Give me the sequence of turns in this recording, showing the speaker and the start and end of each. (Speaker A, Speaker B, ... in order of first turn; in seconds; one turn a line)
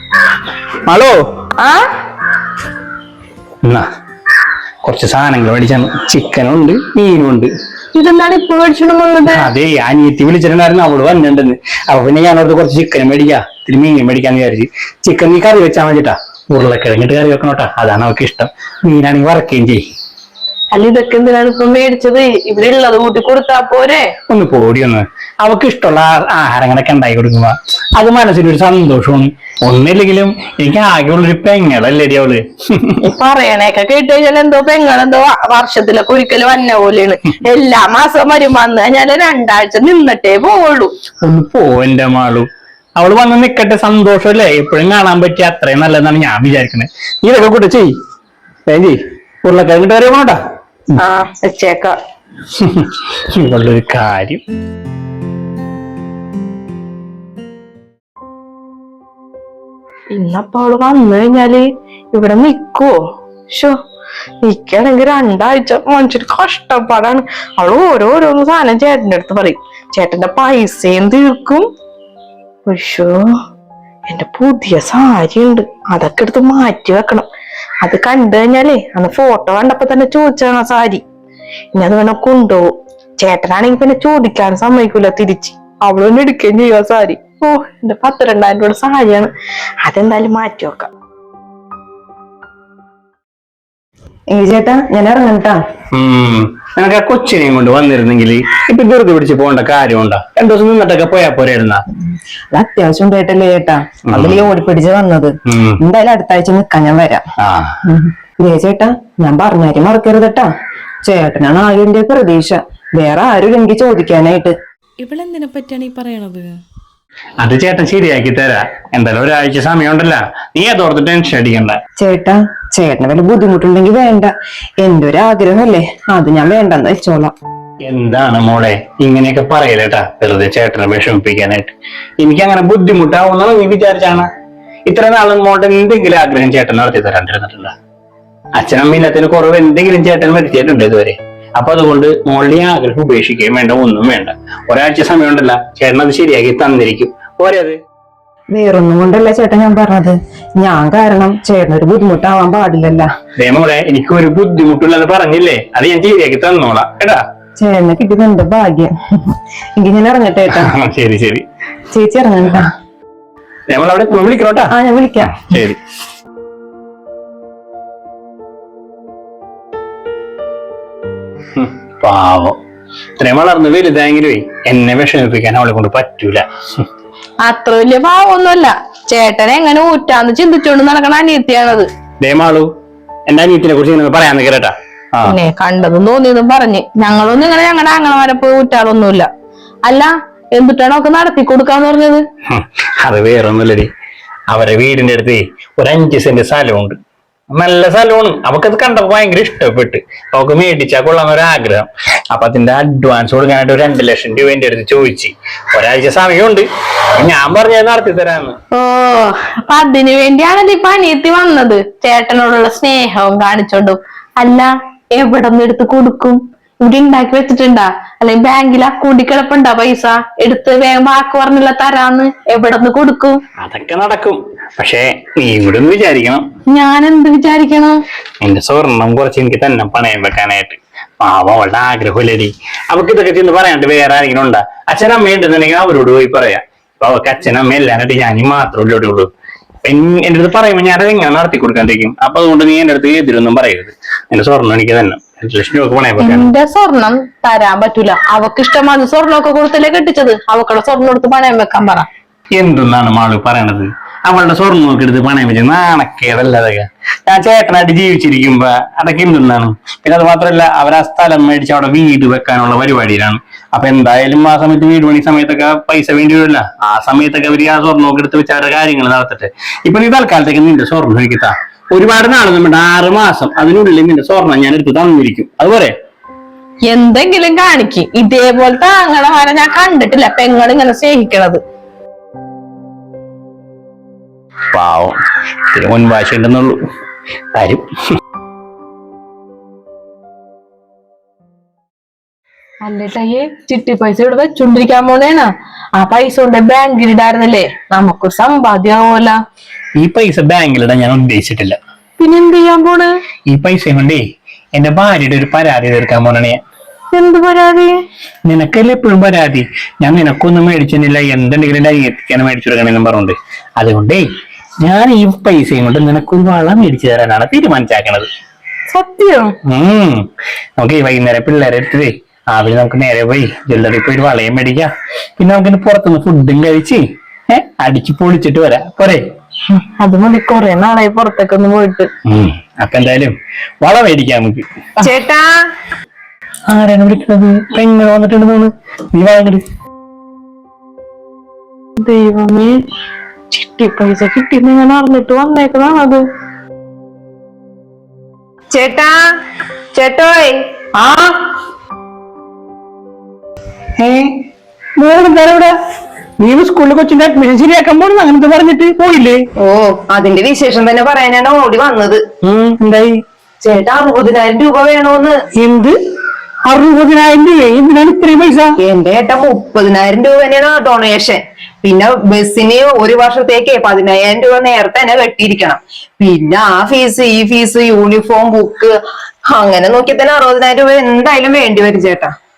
Speaker A: 0.8-1.2
Speaker B: 1.6-1.9
Speaker A: 4.8-7.5
Speaker B: 7.9-9.5
Speaker A: 9.2-19.8
Speaker B: 20.7-24.1
Speaker A: 24.3-33.0
Speaker B: 33.0-40.9
Speaker A: 41.2-47.9
Speaker A: 48.7-50.4
Speaker B: 51.0-52.0
Speaker A: 52.5-54.4
Speaker B: 60.1-63.0
Speaker B: 64.4-71.7
Speaker B: 72.7-73.2
Speaker B: 74.1-77.3
Speaker B: 77.8-81.0
Speaker B: 81.8-89.3
Speaker B: 89.8-90.9
Speaker C: 94.3-95.6
Speaker A: 95.9-101.8
Speaker C: 102.5-107.2
Speaker A: 104.1-104.5
Speaker A: 105.5-105.8
Speaker A: 107.4-107.7
Speaker C: 107.8-110.5
Speaker C: 111.0-114.5
Speaker B: 115.0-116.5
Speaker A: 117.4-121.8
Speaker C: 122.0-124.3
Speaker C: 124.8-127.3
Speaker A: 127.8-134.3
Speaker A: 134.9-137.7
Speaker A: 138.6-147.8
Speaker C: 148.5-153.1
Speaker A: 153.4-157.2
Speaker C: 157.6-160.7
Speaker A: 160.5-161.4
Speaker C: 161.9-162.7
Speaker A: 163.7-164.7
Speaker C: 164.7-165.5
Speaker A: 165.3-165.8
Speaker A: 171.6-172.6
Speaker A: 173.2-176.8
Speaker B: 177.4-181.9
Speaker A: 182.2-182.7
Speaker A: 183.3-185.3
Speaker B: 185.2-189.3
Speaker B: 189.8-192.2
Speaker A: 192.5-193.9
Speaker A: 194.5-197.0
Speaker A: 197.5-206.7
Speaker A: 207.2-208.6
Speaker B: 208.7-223.4
Speaker A: 223.6-226.4
Speaker B: 226.7-228.0
Speaker A: 228.4-239.3
Speaker A: 239.8-246.5
Speaker B: 246.2-252.1
Speaker A: 252.5-275.9
Speaker B: 276.9-281.6
Speaker A: 284.7-285.2
Speaker A: 285.7-286.8
Speaker A: 287.5-287.8
Speaker B: 292.8-299.4
Speaker A: 300.0-301.8
Speaker B: 302.2-303.1
Speaker A: 303.5-304.2
Speaker A: 304.7-306.6
Speaker B: 307.1-308.0
Speaker A: 308.5-314.2
Speaker A: 314.8-318.3
Speaker B: 318.9-319.5
Speaker A: 319.6-320.2
Speaker A: 320.8-324.9
Speaker A: 325.4-329.2
Speaker B: 329.7-332.1
Speaker A: 332.3-334.6
Speaker C: 335.0-335.5
Speaker A: 336.7-339.6
Speaker B: 342.0-342.8
Speaker B: 343.5-346.2
Speaker C: 348.7-349.2
Speaker C: 349.9-350.6
Speaker A: 354.0-354.4
Speaker A: 355.0-355.7
Speaker A: 356.4-359.5
Speaker C: 359.6-362.2
Speaker A: 362.4-363.2
Speaker C: 363.6-365.4
Speaker A: 365.6-365.9
Speaker A: 366.6-368.8
Speaker C: 368.8-378.9
Speaker C: 379.5-382.3